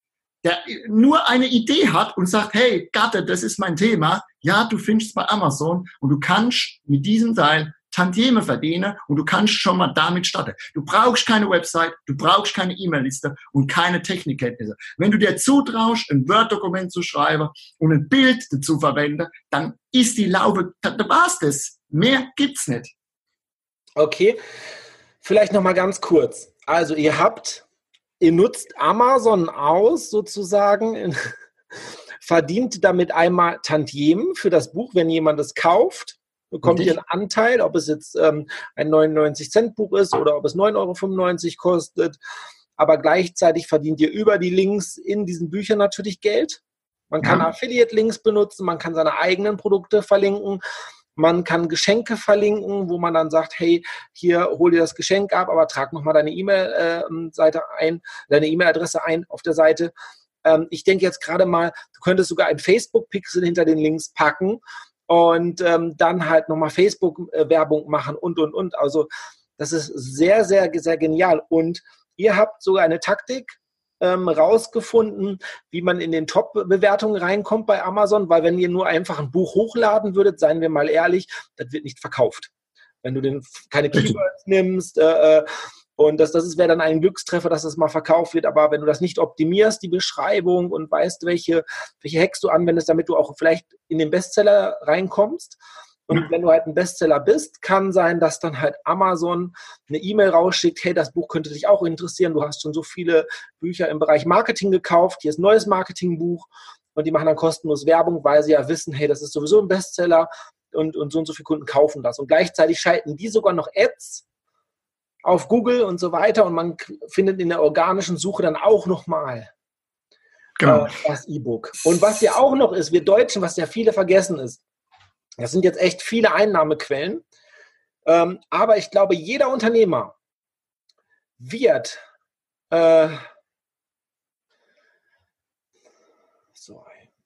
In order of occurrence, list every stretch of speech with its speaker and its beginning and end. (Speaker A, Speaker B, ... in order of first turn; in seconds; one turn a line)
Speaker A: 0.4-22.9
Speaker B: 24.0-24.4
Speaker B: 25.2-27.6
Speaker B: 28.2-31.2
Speaker B: 32.2-42.1
Speaker A: 36.6-37.0
Speaker B: 42.8-50.6
Speaker B: 51.1-59.9
Speaker B: 60.4-82.5
Speaker B: 83.0-85.5
Speaker B: 86.0-114.2
Speaker B: 115.2-119.5
Speaker A: 120.6-120.9
Speaker B: 120.6-124.6
Speaker B: 125.4-127.2
Speaker B: 128.1-130.1
Speaker B: 131.4-132.0
Speaker B: 132.7-133.2
Speaker B: 136.6-137.0